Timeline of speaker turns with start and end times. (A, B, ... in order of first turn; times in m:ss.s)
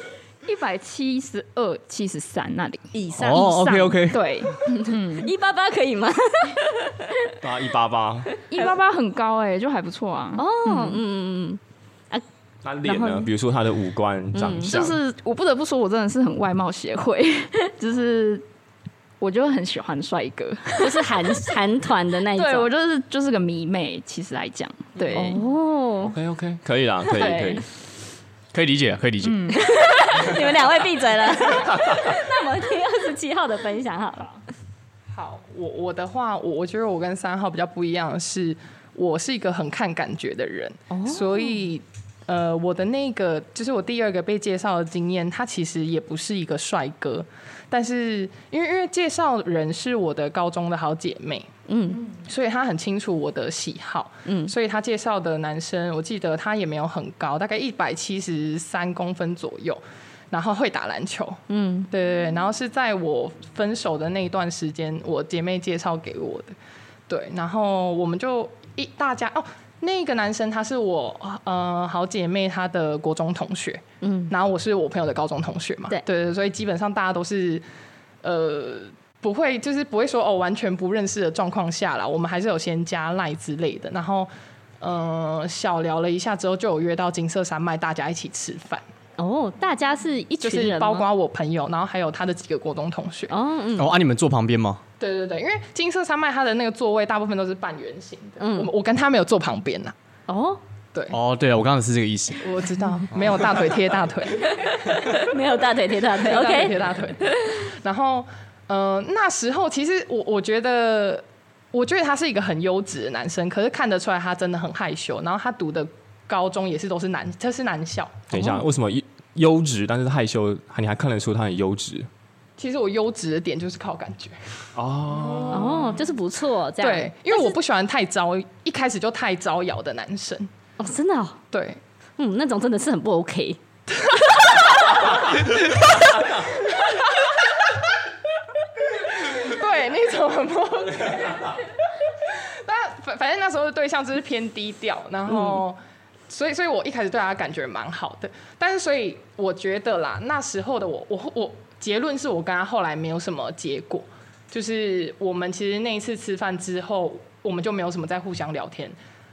0:00.4-0:05.3 A
0:02.9-0:03.5 B
0:03.2-0:04.5 C
0:04.7-0:07.3 B
0:07.4-0:08.3 D
0:08.5-0:11.0 A
0:10.4-0:11.6 B
0:12.6-0:15.0 D
0:12.8-0:13.3 B
0:14.3-0:14.7 B
0:14.6-0:18.4 A
0:19.2-0:21.1 A
0:20.8-0:22.7 B
0:22.3-0:25.4 A
0:25.1-0:26.2 B
0:26.0-0:27.6 D
0:27.2-0:27.6 A
0:28.5-0:29.5 C
0:29.2-0:30.5 A
0:29.5-0:34.4 B
0:31.4-0:32.2 D
0:35.1-0:51.5 E
0:40.9-0:41.5 B
0:51.7-0:52.1 B
0:52.1-1:06.5 E
0:54.3-0:54.5 B
1:01.5-1:01.9 B
1:07.1-1:17.6 E
1:14.0-1:14.3 B
1:18.2-1:24.3 E
1:24.8-1:28.8 E
1:29.2-1:31.1 B
1:30.4-1:33.4 E
1:33.3-1:34.0 B
1:33.8-1:34.8 C
1:35.0-1:40.0 E
1:38.4-1:38.7 B
1:40.3-1:40.6 B
1:41.1-1:42.5 C
1:42.4-1:45.3 E
1:44.6-1:47.5 B
1:46.1-1:58.3 E
1:58.3-2:02.1 D
1:58.3-1:58.6 B
2:02.6-2:04.4 E
2:04.8-2:05.8 D
2:05.1-2:06.1 E
2:05.5-2:07.5 B
2:06.8-2:10.5 E
2:10.8-2:11.4 B
2:11.5-2:11.8 E
2:12.2-2:13.6 B
2:14.0-2:15.9 E
2:16.5-2:17.7 E
2:18.8-2:39.0 E
2:25.3-2:25.6 B